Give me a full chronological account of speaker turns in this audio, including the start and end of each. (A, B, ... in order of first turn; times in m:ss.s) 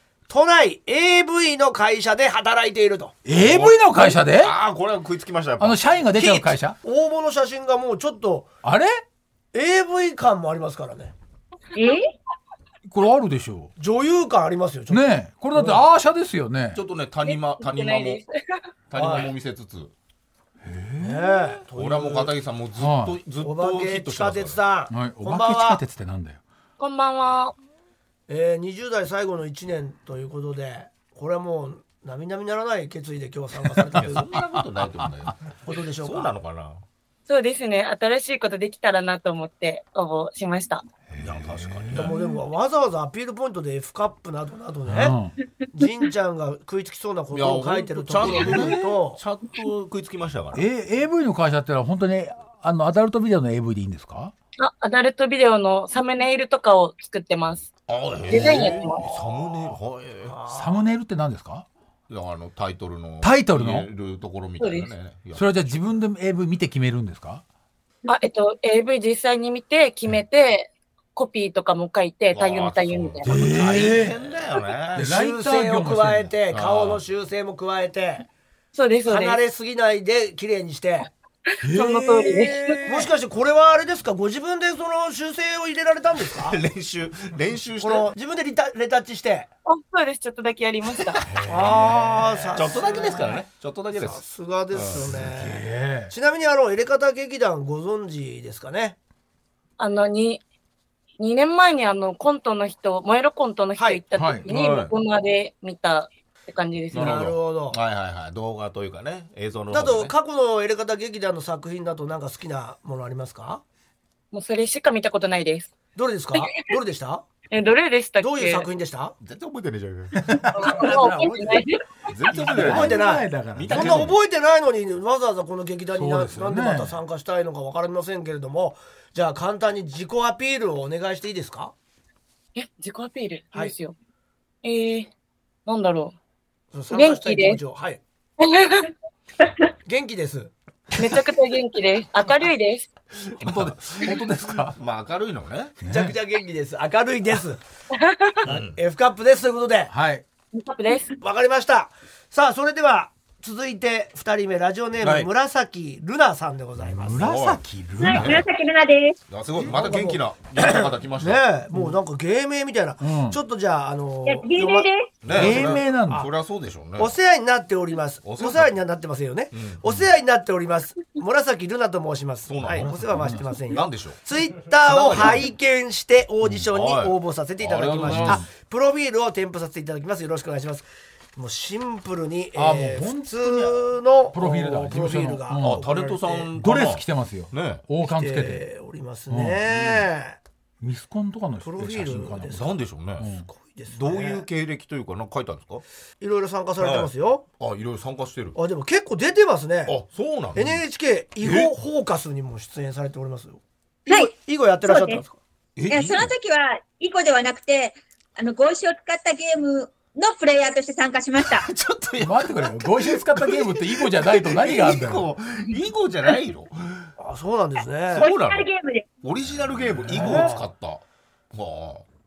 0:00.3-0:03.2 A
0:03.2-0:04.5 B
0:03.4-0:05.8 C
0:05.6-0:06.8 B
0:06.2-0:08.5 A
0:08.6-0:09.0 B
0:09.5-0:11.1 A
0:11.8-0:12.1 D
0:12.9-0:13.7 B
0:13.8-0:15.8 A
0:14.9-0:16.8 B
0:16.8-0:18.2 C
0:17.2-0:18.6 E
0:18.9-0:19.9 C
0:19.0-0:19.3 A
0:20.6-0:21.6 B
0:21.0-0:22.3 A
0:21.7-0:24.6 C
0:22.8-0:23.2 B
0:23.4-0:25.8 A
0:24.9-0:26.4 B
0:26.8-0:27.5 E
0:28.3-0:34.3 A
0:33.9-0:36.8 C
0:34.4-0:35.3 B
0:35.6-0:36.3 A
0:37.3-0:40.8 E
0:41.2-0:42.3 B
0:41.2-0:42.2 C
0:41.9-0:45.2 A
0:44.9-0:45.3 B
0:45.7-0:49.2 A
0:47.3-0:50.7 C
0:50.5-0:54.3 B
0:54.6-0:57.7 E
0:57.9-1:00.4 C
0:58.3-0:59.0 E
0:58.4-0:58.7 B
0:59.0-0:59.5 A
1:00.3-1:00.8 A
1:00.5-1:01.7 B
1:02.1-1:05.9 C
1:03.2-1:03.9 B
1:04.6-1:04.9 E
1:05.4-1:07.4 B
1:08.0-1:13.4 E
1:12.3-1:15.1 C
1:13.2-1:14.3 B
1:15.0-1:16.4 B
1:15.0-1:18.3 A
1:16.5-1:17.0 C
1:18.7-1:19.4 E
1:19.1-1:21.1 A
1:21.6-1:23.1 B
1:21.6-1:22.9 E
1:22.8-1:26.6 A
1:26.3-1:28.1 C
1:27.8-1:29.5 A
1:29.7-1:31.3 E
1:31.2-1:32.0 C
1:31.3-1:32.6 B
1:31.5-1:39.0 A
1:32.5-1:35.1 C
1:35.1-1:36.1 B
1:39.8-1:40.4 E
1:41.2-1:47.2 E
1:44.1-1:44.5 B
1:44.5-1:44.9 C
1:46.9-1:47.8 A
1:46.9-1:50.1 C
1:49.7-1:53.6 A
1:54.3-1:55.7 E
1:56.0-1:57.3 A
1:56.4-1:56.6 E
1:57.5-1:58.7 E
1:58.2-1:59.2 A
1:59.2-2:00.4 C
2:00.2-2:01.7 B
2:00.6-2:01.8 E
2:02.1-2:04.2 C
2:02.3-2:04.1 B
2:02.5-2:11.7 A
2:05.9-2:07.0 B
2:12.6-2:14.0 E
2:14.6-2:15.1 E
2:15.7-2:16.1 E
2:16.7-2:18.0 A
2:16.9-2:17.6 E
2:18.4-2:18.9 E
2:19.9-2:20.5 A
2:21.0-2:22.9 E
2:23.3-2:25.8 C
2:23.4-2:24.8 B
2:25.8-2:26.2 B
2:25.8-2:27.6 A
2:27.9-2:28.4 E
2:28.4-2:29.9 A
2:28.5-2:28.8 C
2:29.9-2:30.2 B
2:30.6-2:31.1 E
2:31.2-2:37.3 A
2:35.0-2:35.3 C
2:36.8-2:38.4 B
2:37.2-2:38.4 C
2:38.0-2:39.2 D
2:39.3-2:41.4 C
2:39.6-2:46.3 A
2:43.0-2:43.4 B
2:44.3-2:45.1 D
2:45.2-2:47.1 C
2:45.3-2:46.3 B
2:47.0-3:06.5 A
2:48.2-2:48.8 C
2:49.5-2:49.8 C
2:52.5-2:54.2 C
2:52.8-2:53.5 B
2:54.8-2:55.5 C
2:56.7-2:58.4 C
2:58.0-2:58.5 B
3:02.6-3:05.8 B
3:05.6-3:07.8 C
3:06.6-3:08.6 B
3:08.0-3:10.4 A
3:09.3-3:09.6 B
3:09.7-3:10.1 C
3:10.8-3:13.5 B
3:11.6-3:12.7 A
3:12.4-3:13.3 C
3:13.4-3:14.4 A
3:13.9-3:15.8 C
3:16.2-3:17.4 A
3:16.8-3:18.6 C
3:18.6-3:20.0 A
3:19.9-3:20.8 C
3:20.6-3:25.4 A
3:21.4-3:21.7 C
3:24.8-3:25.2 D
3:25.8-3:26.3 C
3:25.9-3:31.7 D
3:31.4-3:37.1 C
3:32.2-3:35.3 B
3:37.2-3:38.3 A
3:38.1-3:39.1 D
3:38.2-3:38.7 C
3:39.2-3:41.0 C
3:40.1-3:40.4 B
3:40.1-3:40.7 A
3:41.5-3:42.0 C